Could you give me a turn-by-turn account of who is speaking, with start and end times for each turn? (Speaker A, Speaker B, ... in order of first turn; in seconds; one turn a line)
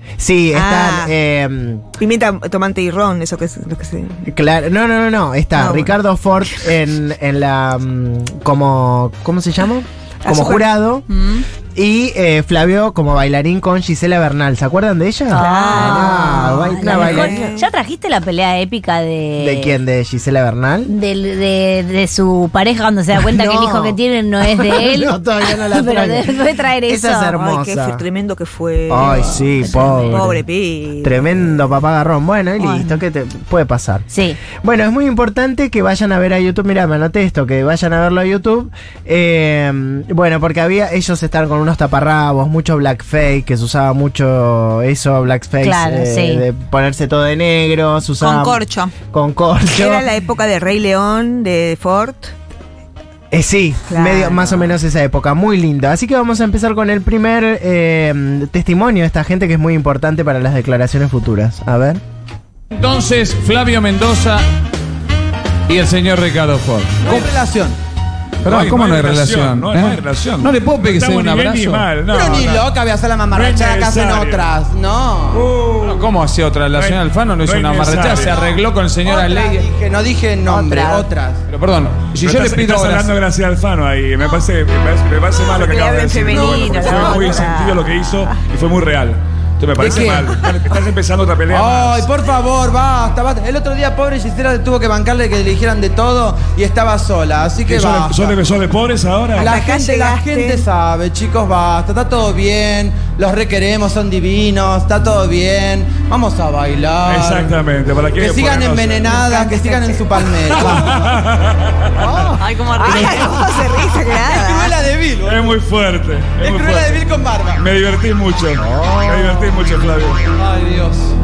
Speaker A: 0.2-1.9
Speaker B: 0.5-1.1
Speaker B: 1.9-4.3
Speaker A: 4.3-11.1
Speaker B: 5.5-6.0
Speaker B: 10.2-10.8
Speaker C: 11.1-11.4
Speaker A: 11.7-17.4
Speaker D: 15.3-19.8
Speaker B: 15.3-17.7
Speaker A: 19.4-20.9
Speaker D: 20.8-27.3
Speaker A: 23.1-28.0
Speaker B: 27.3-31.4
Speaker A: 28.9-30.4
Speaker D: 29.0-30.2
Speaker A: 31.0-34.0
Speaker D: 32.6-33.0
Speaker D: 34.1-34.4
Speaker A: 34.6-48.6
Speaker D: 45.6-46.4
Speaker C: 48.2-48.9
Speaker A: 49.1-50.1
Speaker B: 49.7-52.3
Speaker A: 53.3-62.0
Speaker B: 53.9-54.8
Speaker E: 62.7-64.4
Speaker E: 65.7-67.3
Speaker F: 67.0-67.8
Speaker E: 68.4-71.9
Speaker G: 68.4-72.7
Speaker F: 72.0-75.8
Speaker G: 73.3-74.5
Speaker G: 75.3-75.9
Speaker E: 75.8-79.7
Speaker G: 76.7-78.3
Speaker F: 78.3-81.4
Speaker B: 80.5-81.1
Speaker E: 81.5-83.2
Speaker G: 82.2-92.1
Speaker B: 84.2-84.5
Speaker B: 85.3-88.4
Speaker F: 86.3-86.7
Speaker F: 89.8-90.6
Speaker F: 91.5-98.5
Speaker G: 97.6-99.5
Speaker B: 99.3-100.6
Speaker F: 99.4-107.6
Speaker G: 107.0-109.1
Speaker F: 108.2-111.0
Speaker B: 109.1-110.2
Speaker G: 110.4-112.0
Speaker F: 112.0-113.0
Speaker C: 112.4-113.5
Speaker B: 112.8-114.8
Speaker F: 114.0-115.6
Speaker G: 115.2-117.0
Speaker F: 116.4-117.6
Speaker G: 117.6-120.3
Speaker A: 118.5-119.5
Speaker F: 120.4-121.1